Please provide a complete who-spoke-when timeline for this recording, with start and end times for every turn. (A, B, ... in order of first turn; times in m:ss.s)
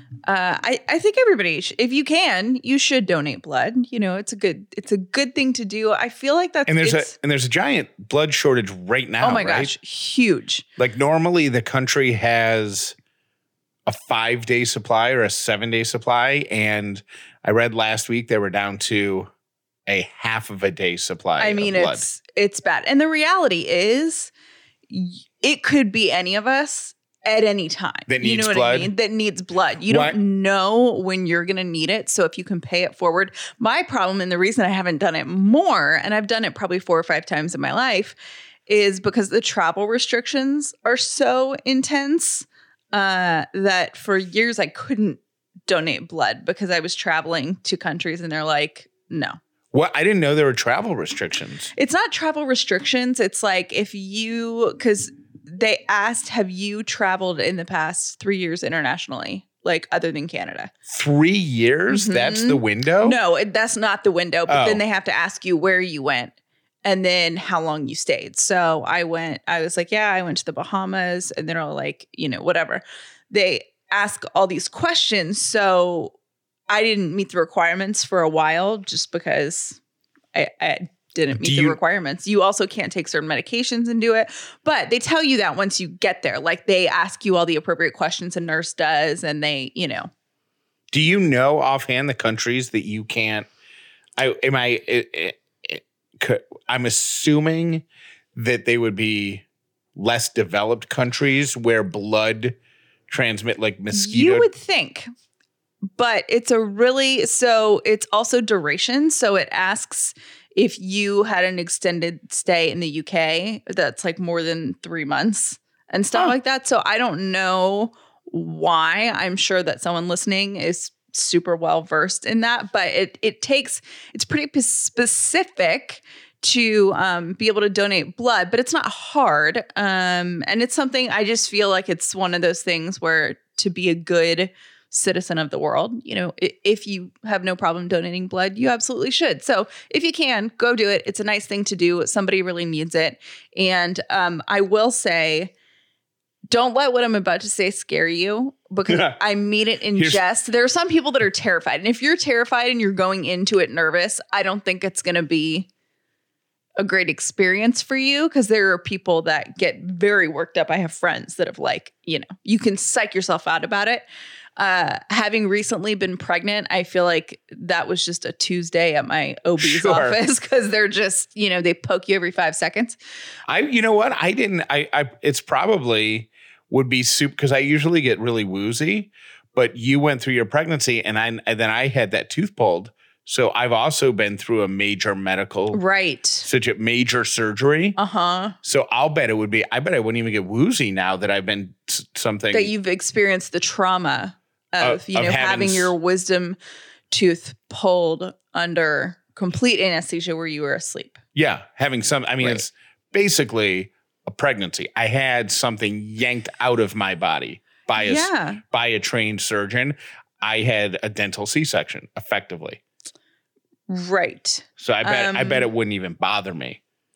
0:00.3-0:07.1 A
0:06.7-0:09.7 B
0:09.2-0:10.7 A
0:10.8-0:13.0 B
0:13.9-0:19.3 B
0:19.9-0:22.0 B
0:21.4-0:24.3 A
0:24.9-0:38.2 A
0:28.1-0:28.9 B
0:29.9-0:30.2 B
0:38.7-0:49.4 A
0:49.7-0:51.7 B
0:51.8-1:00.7 A
1:00.9-1:03.2 B
1:01.9-1:06.3 A
1:04.5-1:04.8 B
1:06.8-1:16.1 A
1:16.7-1:19.8 A
1:20.3-1:30.1 A
1:21.4-1:21.8 B
1:30.9-1:33.5 B
1:34.2-1:37.8 B
1:38.4-1:39.4 B
1:40.0-1:42.6 B
1:43.1-1:44.5 B
1:43.9-1:45.1 A
1:45.9-2:25.5 A
2:26.5-2:35.7 A
2:28.9-2:29.2 B
2:30.0-2:30.2 B
2:36.8-2:44.0 A
2:44.6-2:53.0 A
2:49.6-2:50.2 B
2:53.5-3:05.8 B
3:05.7-3:06.5 A
3:06.4-3:08.0 B
3:08.0-3:08.6 A
3:08.6-3:12.7 B
3:12.5-3:16.6 A
3:14.8-3:15.9 B
3:17.1-3:21.2 A
3:21.4-3:32.8 B
3:28.0-3:28.6 A
3:33.9-3:35.7 A
3:34.8-3:36.8 B